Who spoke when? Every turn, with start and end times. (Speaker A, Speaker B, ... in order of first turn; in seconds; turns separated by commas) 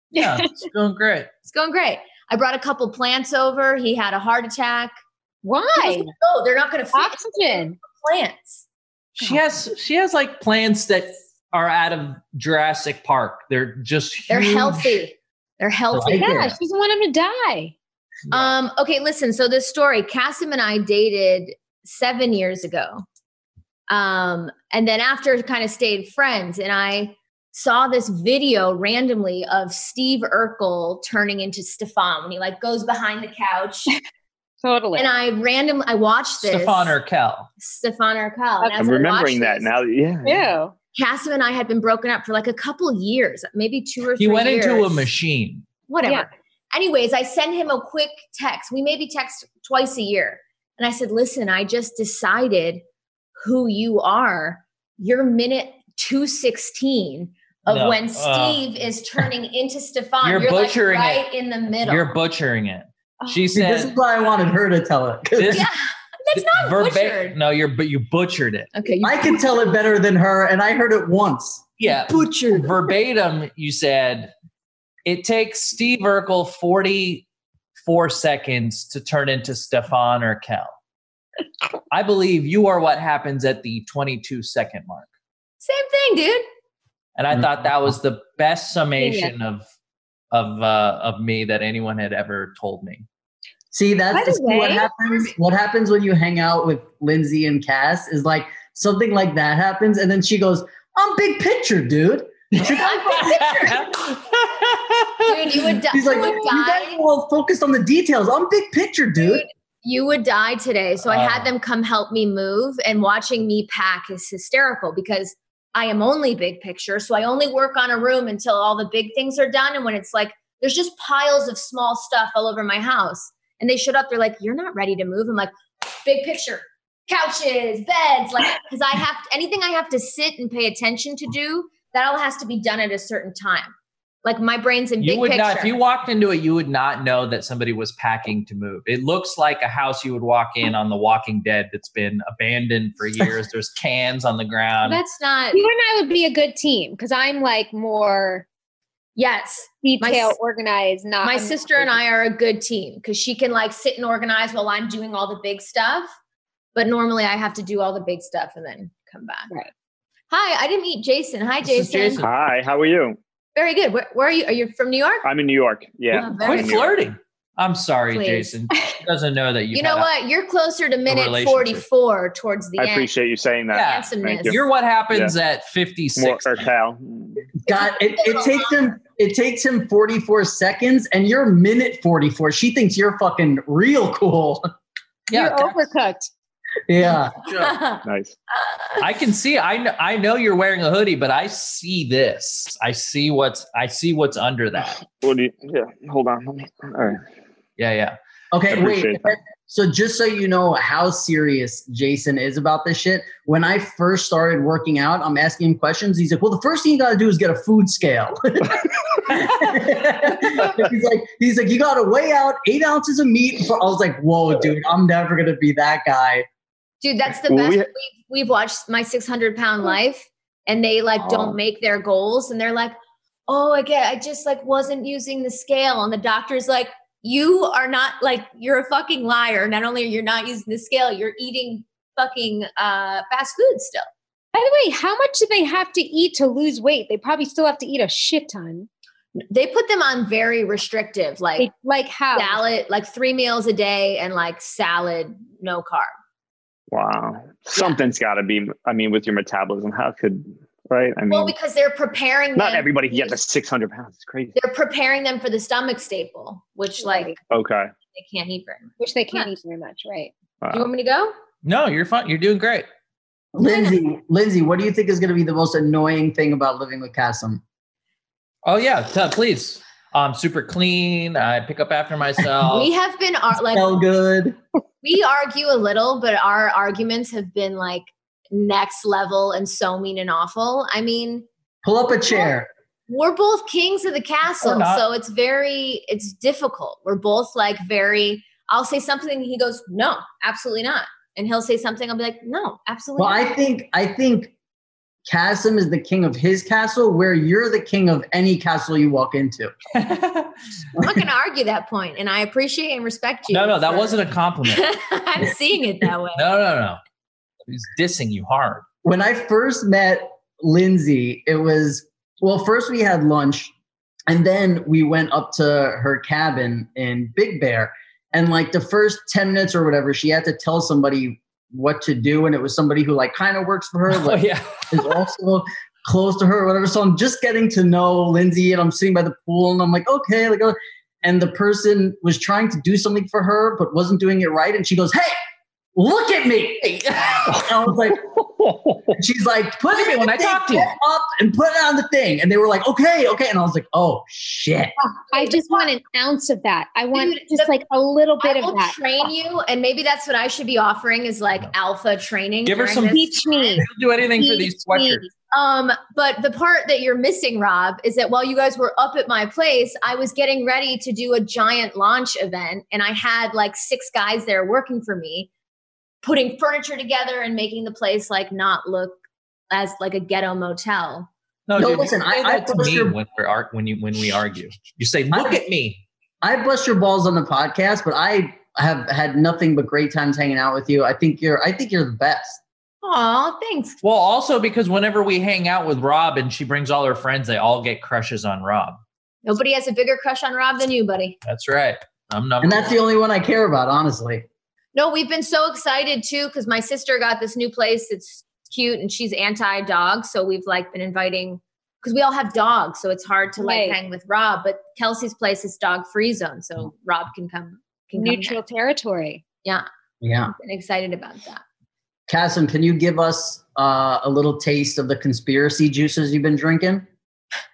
Speaker A: 0.1-0.5, Speaker B: 0.2-1.3, Speaker C: 1.4-4.9, Speaker A: 5.4-6.1, Speaker C: 5.7-8.6, Speaker A: 6.9-7.8, Speaker B: 9.2-15.0, Speaker C: 14.3-16.4, Speaker D: 15.9-16.6, Speaker A: 16.1-17.7, Speaker C: 18.3-23.0, Speaker C: 23.9-33.9, Speaker A: 34.6-35.1, Speaker C: 34.9-37.0, Speaker B: 36.4-37.5, Speaker C: 37.6-39.7, Speaker E: 38.8-40.5, Speaker A: 40.2-40.7, Speaker C: 40.9-45.1, Speaker B: 44.2-45.7, Speaker C: 45.9-52.8, Speaker C: 53.4-62.1, Speaker B: 57.7-58.6, Speaker B: 60.2-63.9, Speaker D: 63.5-65.6, Speaker B: 65.4-65.7, Speaker C: 65.5-67.4, Speaker B: 66.3-68.7, Speaker C: 68.7-69.6, Speaker D: 69.0-71.6, Speaker B: 71.8-74.3, Speaker C: 72.1-72.8, Speaker B: 75.0-77.2, Speaker B: 77.8-80.7, Speaker B: 81.9-85.1, Speaker C: 85.6-86.4, Speaker B: 87.2-89.6, Speaker D: 87.3-87.7, Speaker A: 89.0-89.3, Speaker B: 90.3-93.0, Speaker D: 93.7-104.0, Speaker A: 94.1-94.9, Speaker C: 102.7-103.9, Speaker B: 103.0-105.4, Speaker C: 105.2-107.0, Speaker D: 105.9-109.4, Speaker C: 109.2-125.5, Speaker B: 111.0-111.5, Speaker C: 126.0-135.7, Speaker B: 135.0-145.0, Speaker C: 144.9-145.6, Speaker A: 145.5-148.4, Speaker C: 149.2-150.3, Speaker A: 149.8-152.0, Speaker C: 151.2-156.1, Speaker C: 156.7-159.5, Speaker C: 160.3-162.2, Speaker B: 161.6-162.3, Speaker E: 162.2-163.2, Speaker C: 163.6-165.3, Speaker E: 165.2-166.9, Speaker B: 166.1-170.1, Speaker C: 166.1-166.9, Speaker C: 168.1-168.8, Speaker C: 169.7-173.1, Speaker B: 171.1-171.8, Speaker E: 172.8-174.6, Speaker B: 173.7-176.7, Speaker C: 173.8-174.6, Speaker E: 176.2-177.4, Speaker D: 177.7-184.7, Speaker C: 177.7-178.9, Speaker B: 185.3-185.9, Speaker A: 185.3-186.3, Speaker D: 186.9-187.4, Speaker C: 187.4-189.0, Speaker E: 188.0-188.4, Speaker B: 189.0-195.0, Speaker E: 195.1-197.2, Speaker B: 197.8-198.2, Speaker D: 198.5-216.4, Speaker E: 198.7-199.2, Speaker C: 217.0-222.9, Speaker E: 217.4-217.9, Speaker E: 221.2-221.6, Speaker C: 223.5-234.1, Speaker A: 234.5-238.9, Speaker C: 239.5-241.7, Speaker A: 241.6-242.6, Speaker C: 242.3-246.1, Speaker E: 246.9-251.5, Speaker C: 251.3-253.4, Speaker E: 252.6-254.5, Speaker C: 254.5-257.4, Speaker A: 257.0-257.3, Speaker E: 257.5-257.9, Speaker C: 258.1-259.5, Speaker A: 259.0-260.3, Speaker E: 260.6-260.9, Speaker C: 260.7-261.3, Speaker B: 261.6-262.9, Speaker D: 263.5-267.6, Speaker B: 268.6-272.9, Speaker C: 272.6-274.0, Speaker D: 273.6-274.6, Speaker C: 275.0-281.5, Speaker D: 281.8-282.7, Speaker C: 282.3-282.5, Speaker C: 283.1-293.5, Speaker B: 284.6-285.0, Speaker D: 293.2-294.5, Speaker D: 295.2-299.7, Speaker B: 299.9-300.5, Speaker C: 301.0-306.4, Speaker B: 303.5-304.9, Speaker B: 306.3-307.0, Speaker B: 307.7-308.8, Speaker D: 309.0-313.7, Speaker D: 314.3-335.4, Speaker B: 324.1-325.2, Speaker D: 335.9-338.2, Speaker E: 337.5-339.1, Speaker D: 339.1-344.9, Speaker B: 339.9-340.9, Speaker A: 345.2-349.0, Speaker C: 345.3-345.9, Speaker C: 347.1-347.7, Speaker C: 348.4-353.8, Speaker B: 352.6-353.2, Speaker A: 353.1-353.9, Speaker B: 353.8-355.2, Speaker A: 354.4-355.3, Speaker C: 355.5-365.5, Speaker C: 366.2-369.2, Speaker C: 369.7-371.3, Speaker B: 371.7-376.0, Speaker D: 371.8-373.2, Speaker D: 375.3-375.6, Speaker D: 376.4-382.6, Speaker C: 383.0-384.0, Speaker B: 384.0-389.0, Speaker C: 389.4-391.4, Speaker B: 391.4-393.0, Speaker D: 392.6-394.4, Speaker C: 394.9-408.6, Speaker A: 403.6-404.0, Speaker A: 408.2-409.4, Speaker D: 410.2-410.5, Speaker C: 410.4-411.6, Speaker D: 412.3-417.1